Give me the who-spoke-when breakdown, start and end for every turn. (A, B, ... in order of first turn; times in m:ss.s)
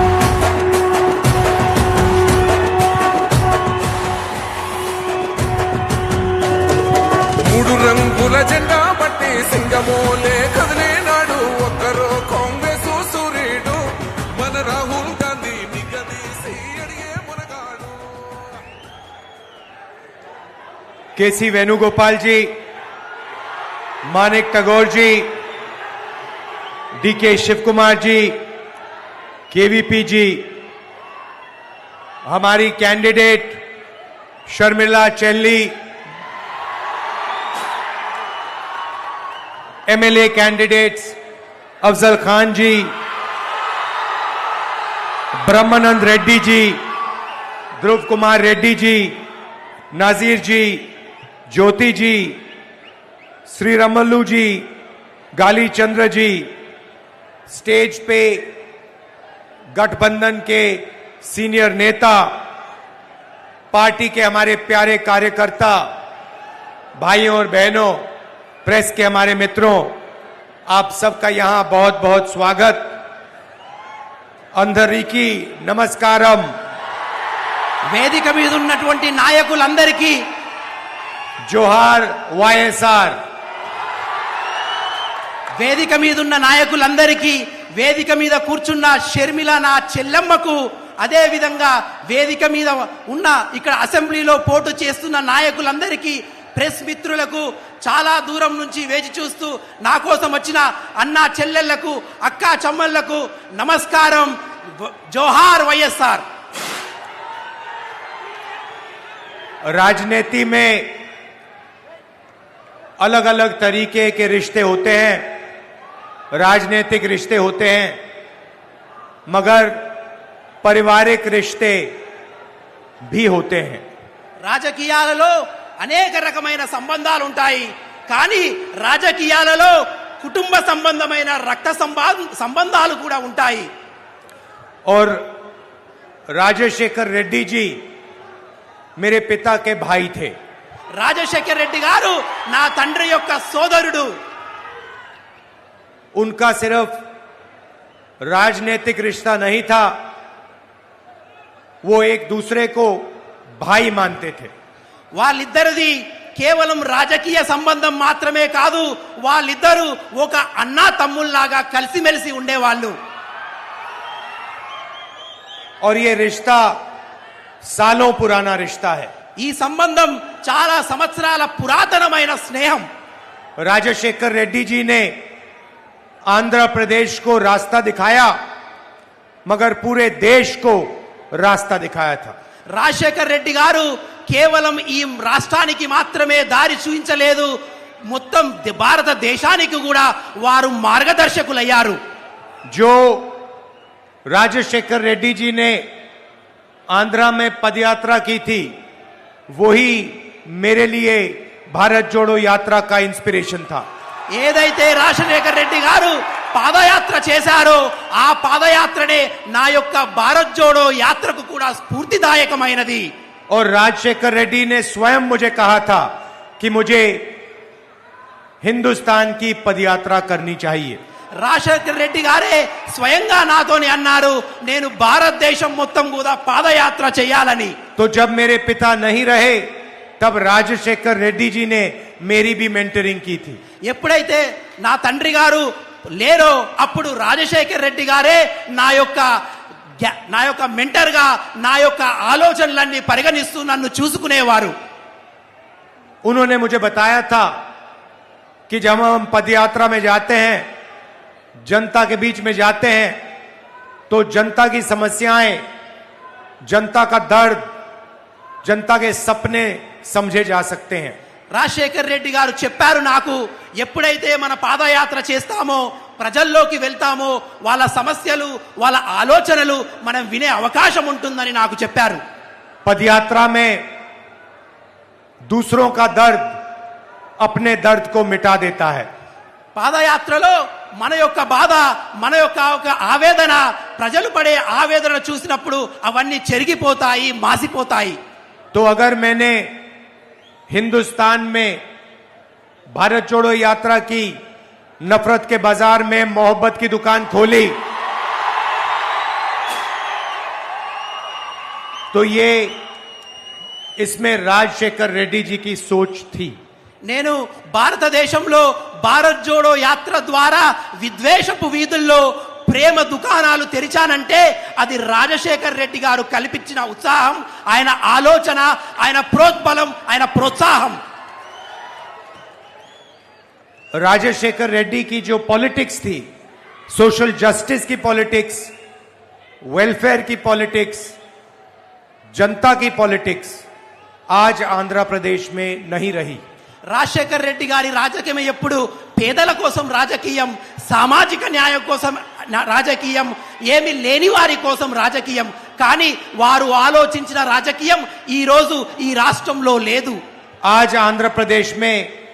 0:07.4-0:18.6 A
0:21.2-0:22.6 B
0:24.0-0:25.4 B
0:27.0-0:28.4 B
0:29.5-0:30.6 B
0:32.2-0:33.6 B
0:34.5-0:35.8 B
0:39.9-0:41.2 B
0:41.8-0:42.9 B
0:45.4-0:46.8 B
0:47.8-0:49.2 B
0:49.9-0:50.9 B
0:51.5-0:52.4 B
0:53.4-0:54.7 B
0:55.3-0:56.5 B
0:57.5-0:58.6 B
0:59.7-1:02.4 B
1:03.7-1:05.9 B
1:07.0-1:08.0 B
1:08.6-1:10.0 B
1:10.7-1:13.0 B
1:14.5-1:16.6 B
1:17.9-1:20.3 C
1:21.4-1:23.2 B
1:25.5-1:46.2 C
1:49.6-1:51.0 B
1:53.0-1:55.4 B
1:56.3-1:58.0 B
1:59.3-2:00.0 B
2:00.6-2:02.0 B
2:03.0-2:03.8 B
2:04.4-2:13.7 C
2:14.8-2:15.4 B
2:16.3-2:17.8 B
2:19.0-2:20.4 B
2:20.9-2:24.2 C
2:26.1-2:27.0 B
2:28.2-2:30.0 B
2:31.8-2:34.5 B
2:35.1-2:43.0 C
2:45.8-2:46.8 B
2:47.6-2:49.1 B
2:49.4-2:52.9 C
2:53.6-2:55.2 B
2:56.3-2:58.4 B
2:59.4-3:02.4 B
3:02.7-3:12.0 C
3:12.7-3:13.4 B
3:14.3-3:15.9 B
3:16.9-3:18.8 B
3:19.5-3:23.8 B
3:24.3-3:33.1 C
3:33.5-3:37.4 B
3:38.6-3:41.0 B
3:41.4-3:47.8 C
3:48.0-3:53.6 B
3:53.8-3:59.4 C
4:00.0-4:04.8 C
4:06.2-4:07.6 B
4:08.7-4:10.7 B
4:11.6-4:13.2 B
4:14.1-4:15.6 B
4:16.6-4:17.7 B
4:18.6-4:21.2 B
4:21.5-4:32.2 C
4:32.8-4:33.9 B
4:35.4-4:36.6 B
4:37.4-4:39.1 B
4:39.7-4:48.2 C
4:48.7-4:49.8 B
4:50.7-4:51.8 B
4:52.9-4:54.4 B
4:55.0-4:57.8 B
5:02.1-5:02.8 B
5:04.0-5:06.6 B
5:07.0-5:21.0 C
5:23.9-5:26.3 B
5:26.9-5:28.7 B
5:29.6-5:31.1 B
5:32.3-5:33.6 B
5:34.3-5:36.4 B
5:36.9-5:50.2 C
5:50.6-5:52.1 B